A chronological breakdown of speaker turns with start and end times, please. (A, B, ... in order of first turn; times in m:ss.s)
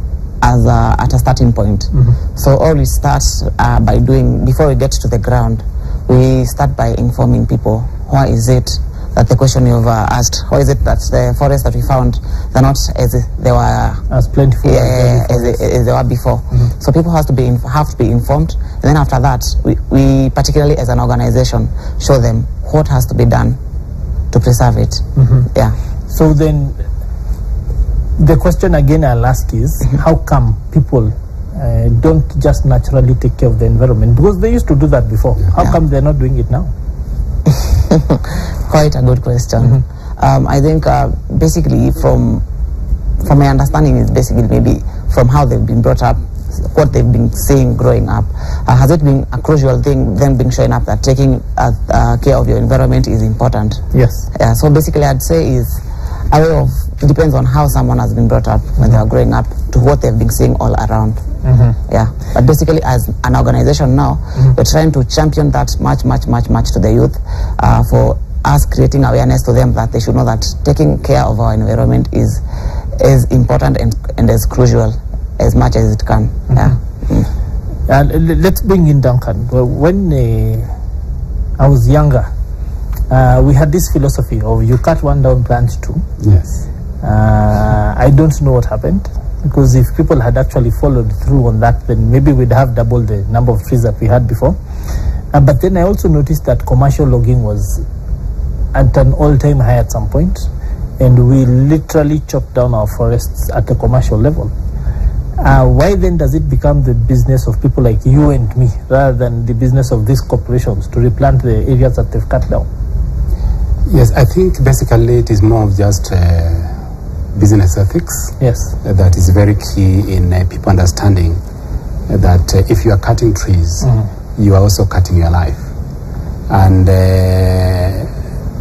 0:00.4-0:14.0 A
0:14.1-0:15.6 B
0:14.6-0:23.6 A
0:24.3-0:25.7 A
0:25.2-0:25.5 B
0:26.1-0:26.8 B
0:28.2-0:36.7 B
0:37.9-0:42.4 A
0:43.2-1:01.2 A
0:53.9-0:54.3 B
1:01.4-1:01.8 B
1:01.9-1:12.4 A
1:13.0-1:17.3 A
1:17.9-1:20.7 B
1:21.6-1:22.3 B
1:23.1-1:26.1 B
1:26.2-1:26.6 C
1:27.0-1:34.6 B
1:35.3-1:37.8 B
1:38.7-1:44.5 B
1:45.4-1:52.7 B
1:53.8-1:56.8 C
1:57.3-2:01.4 C
1:58.4-1:58.8 B
2:02.1-2:05.7 C
2:06.5-2:08.1 C